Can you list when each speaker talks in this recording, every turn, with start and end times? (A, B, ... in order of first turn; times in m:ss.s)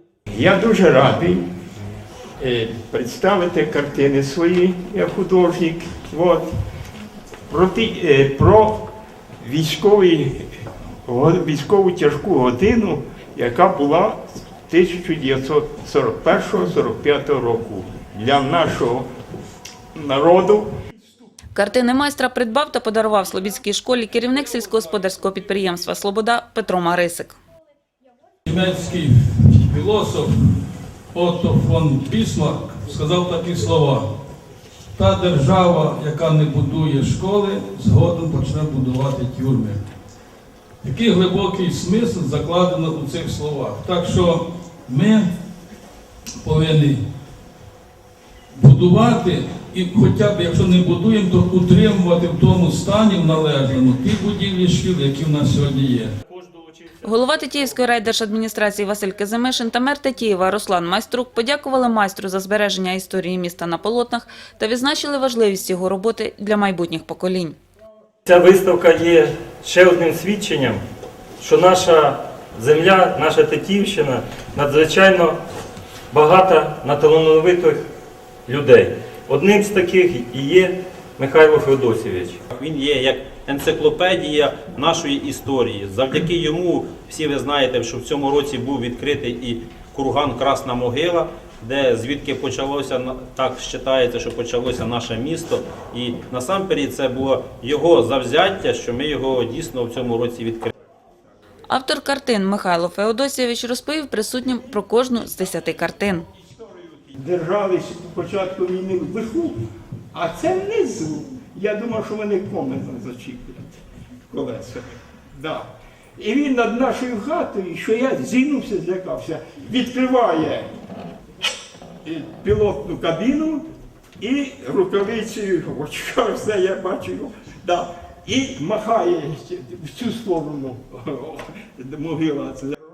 0:00.3-0:01.4 A
0:02.4-0:06.5 A
0:07.5-0:10.5 A
0:11.1-0:19.1 A
0:20.0-0:20.7 A
0:21.5-0:27.4 B
0:28.4-0:30.6 C
0:31.1-0:34.1 C
0:35.0-0:39.9 C
0:40.8-0:45.3 C
0:46.4-0:47.0 C
0:48.6-0:56.2 C
0:56.3-0:57.0 D
0:57.0-1:07.6 B
1:08.3-1:10.8 D
1:11.4-1:15.4 D
1:16.1-1:17.8 D
1:18.5-1:22.4 D
1:22.5-1:40.7 E
1:41.7-1:46.3 B
1:46.9-1:49.6 A
1:50.1-2:00.7 A
2:02.0-2:03.7 A
2:04.2-2:12.8 A